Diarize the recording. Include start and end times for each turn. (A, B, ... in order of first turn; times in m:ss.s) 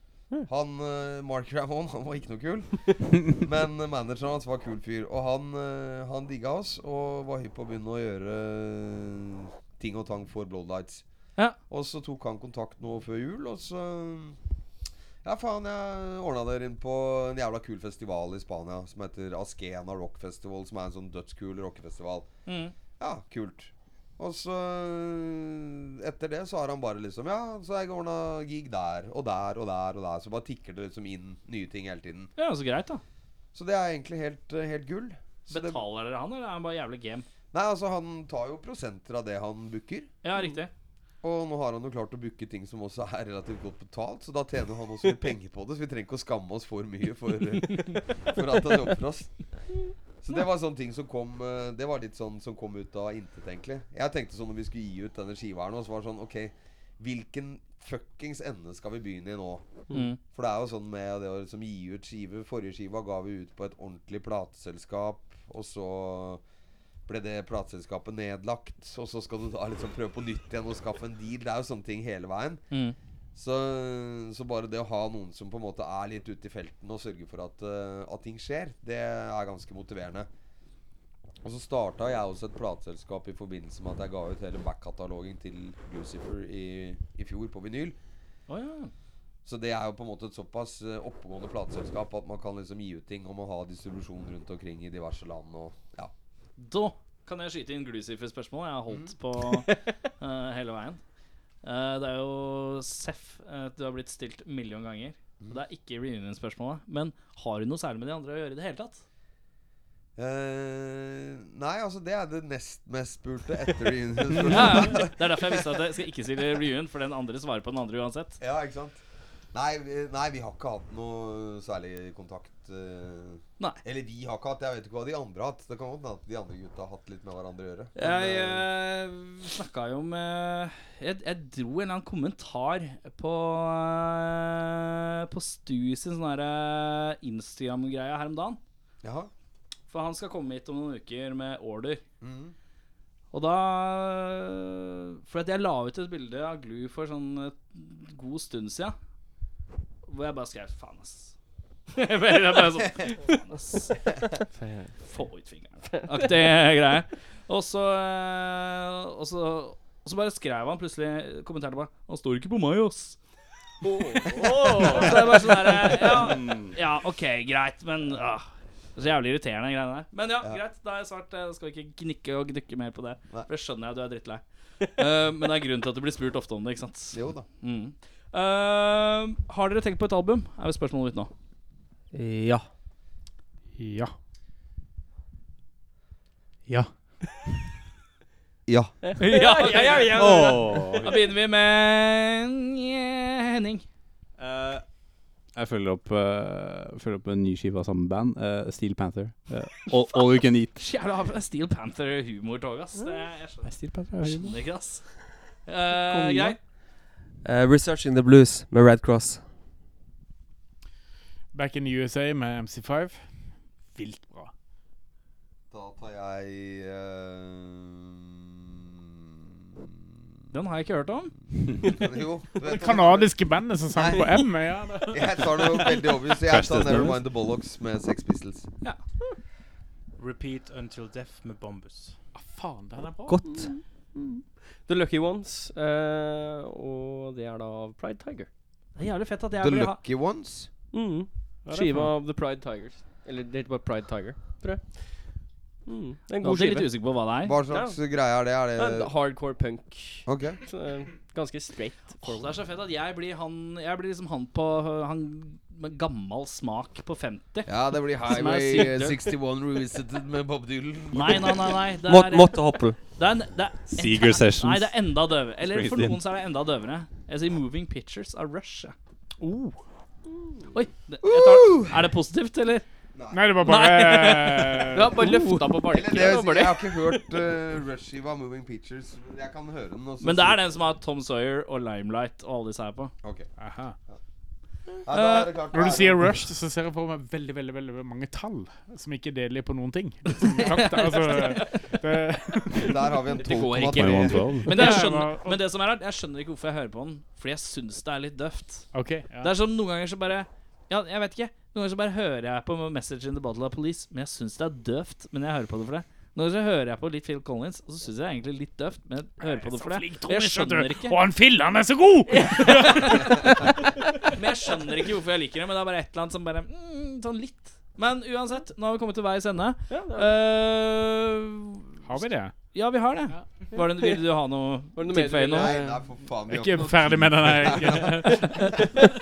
0:00.4-0:11.0 A
0:11.7-0:14.4 A
0:15.2-0:22.3 A
0:22.4-0:22.7 B
0:23.0-0:32.3 A
0:32.4-0:33.0 B
0:33.5-0:35.8 A
0:35.5-0:37.2 B
0:37.5-0:40.1 A
0:40.2-0:40.7 B
0:41.2-0:49.5 A
0:50.2-1:06.4 A
0:59.9-1:00.2 B
1:07.1-1:12.6 A
1:12.7-1:13.0 B
1:13.3-1:20.3 A
1:21.4-1:28.0 A
1:28.5-1:28.9 B
1:29.4-1:36.1 A
1:36.6-1:41.0 B
1:41.6-1:49.0 B
1:50.2-1:55.6 A
1:54.4-1:58.4 B
1:58.4-1:59.0 A
1:59.5-2:08.7 A
2:08.0-2:18.6 B
2:19.0-2:19.3 A
2:19.9-2:22.0 B
2:22.2-2:22.5 A
2:23.3-2:28.9 B
2:30.0-2:31.3 B
2:31.9-2:34.3 B
2:34.5-2:34.9 C
2:35.0-2:43.2 B
2:43.8-2:45.5 C
2:44.2-3:01.3 B
2:46.1-2:46.7 D
2:57.1-2:57.4 A
3:02.1-3:02.7 E
3:08.6-3:09.1 A
3:09.0-3:10.6 C
3:09.2-3:13.8 B
3:10.1-3:11.1 D
3:14.4-3:14.8 D
3:15.5-3:20.7 D
3:20.7-3:26.6 B
3:23.7-3:24.6 D
3:26.1-3:26.5 D
3:27.4-3:29.4 E
3:31.5-3:33.2 F
3:33.9-3:34.5 F
3:35.7-3:39.9 A
3:40.5-3:41.9 B
3:41.7-3:44.5 A
3:42.6-3:46.1 F
3:45.0-3:48.7 A
3:46.4-3:47.2 D
3:50.2-3:52.2 G
3:52.3-3:53.4 F
3:53.3-3:53.7 E
3:53.5-3:58.5 C
3:59.0-4:00.0 B
3:59.6-4:00.7 A
4:00.9-4:07.2 C
4:01.7-4:02.1 F
4:06.4-4:07.6 B
4:07.2-4:09.1 A
4:07.7-4:12.5 C
4:10.2-4:10.6 A
4:12.2-4:19.2 B
4:17.6-4:21.8 A
4:21.1-4:28.9 B
4:22.0-4:23.0 E
4:23.9-4:26.2 D
4:29.4-4:29.8 F
4:30.7-4:32.8 B
4:31.2-4:32.0 A
4:33.1-4:33.6 A
4:33.3-4:35.4 F
4:33.6-4:34.7 B
4:34.9-4:37.1 C
4:35.8-4:40.6 A
4:40.2-4:43.1 B
4:43.2-4:43.5 A
4:43.6-4:43.9 F
4:45.0-4:46.4 A
4:45.1-4:45.5 B
4:45.2-4:53.3 F
4:50.5-4:51.7 B
4:52.7-4:54.7 A
4:53.4-4:54.3 C
4:53.6-4:53.9 B
4:53.8-4:54.7 D
4:54.6-4:55.6 F
4:54.6-5:11.2 B
4:58.9-4:59.5 F
5:09.4-5:14.3 F
5:12.8-5:13.2 B
5:14.3-5:25.8 B
5:19.9-5:20.3 C
5:22.0-5:22.6 F
5:23.7-5:24.2 C
5:25.0-5:26.0 C
5:25.5-5:28.6 A
5:26.4-5:29.1 F